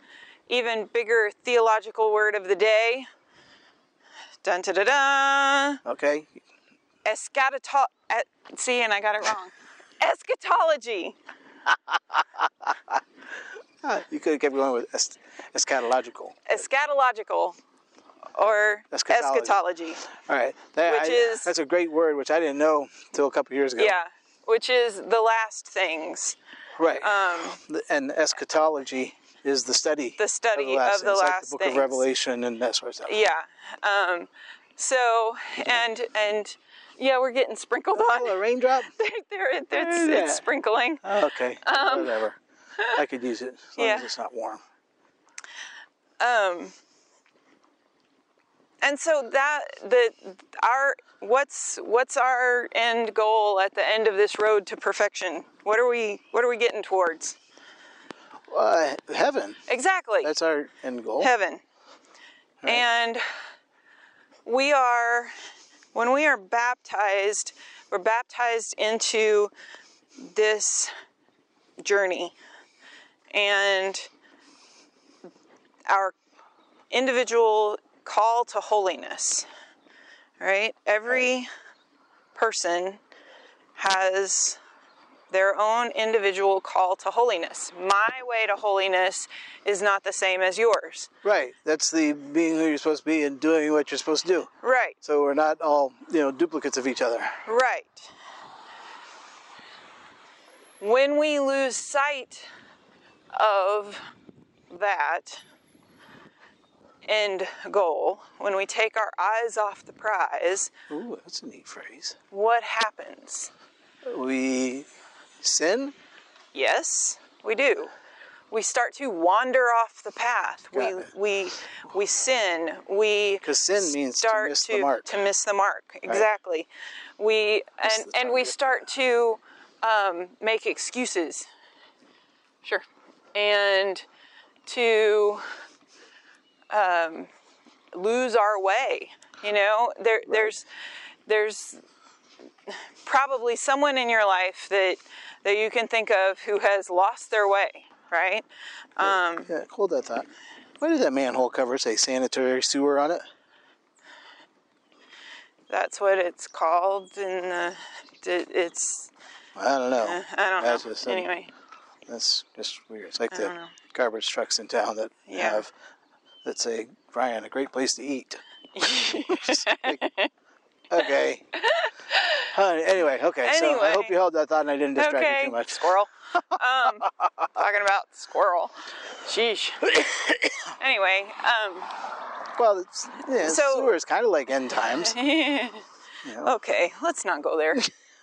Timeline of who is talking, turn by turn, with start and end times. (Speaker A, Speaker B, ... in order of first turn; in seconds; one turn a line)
Speaker A: 0.5-3.1
Speaker A: 4.4-5.8
Speaker B: 5.8-6.4
Speaker A: 7.0-11.2
Speaker B: 12.1-13.0
Speaker B: 13.8-16.6
Speaker A: 16.5-17.6
Speaker A: 18.3-20.1
Speaker B: 18.9-19.6
Speaker B: 20.1-23.9
Speaker A: 20.8-21.5
Speaker A: 23.8-26.4
Speaker B: 26.8-33.1
Speaker A: 27.0-27.6
Speaker A: 30.2-32.0
Speaker A: 33.1-38.4
Speaker B: 37.9-38.9
Speaker A: 39.0-42.2
Speaker B: 39.7-40.4
Speaker B: 41.0-44.6
Speaker A: 43.8-44.1
Speaker A: 46.2-46.7
Speaker A: 48.8-57.4
Speaker B: 58.5-59.6
Speaker A: 59.7-60.3
Speaker B: 60.2-61.3
Speaker A: 61.2-61.6
Speaker A: 62.6-63.2
Speaker A: 64.4-65.3
Speaker A: 65.9-69.5
Speaker A: 70.2-70.9
Speaker A: 71.8-72.3
Speaker A: 73.3-74.1
Speaker A: 75.9-76.1
Speaker A: 76.9-79.5
Speaker A: 80.4-81.5
Speaker A: 82.3-83.0
Speaker A: 83.8-84.6
Speaker A: 85.3-91.1
Speaker B: 91.2-94.5
Speaker A: 94.6-95.0
Speaker B: 95.0-97.4
Speaker A: 97.5-98.1
Speaker A: 100.8-102.5
Speaker A: 103.3-104.0
Speaker A: 104.7-105.4
Speaker A: 107.0-110.7
Speaker B: 110.9-112.2
Speaker A: 112.3-113.5
Speaker B: 114.0-114.9
Speaker B: 115.4-115.9
Speaker A: 116.5-117.9
Speaker A: 118.5-131.5
Speaker B: 120.7-121.1
Speaker B: 123.4-125.1
Speaker B: 127.8-128.8
Speaker A: 132.6-134.1
Speaker A: 134.7-135.4
Speaker A: 136.7-137.3
Speaker A: 137.9-140.7
Speaker B: 140.2-140.5
Speaker A: 141.2-141.8
Speaker A: 142.7-148.4
Speaker A: 148.9-149.5
Speaker B: 149.0-150.3
Speaker B: 150.8-153.2
Speaker A: 155.7-159.1
Speaker B: 159.6-161.3
Speaker A: 160.0-161.5
Speaker B: 162.1-165.7
Speaker A: 163.3-163.7
Speaker A: 165.3-165.6
Speaker B: 166.4-170.0
Speaker A: 168.8-170.3
Speaker B: 170.9-171.5
Speaker A: 171.6-172.5
Speaker B: 172.5-175.9
Speaker A: 173.4-174.1
Speaker A: 174.9-180.0
Speaker B: 176.6-177.3
Speaker B: 180.0-180.7
Speaker A: 180.8-181.9
Speaker B: 182.6-185.2
Speaker A: 183.3-183.9
Speaker A: 185.0-185.8
Speaker B: 186.2-186.5
Speaker A: 186.4-187.9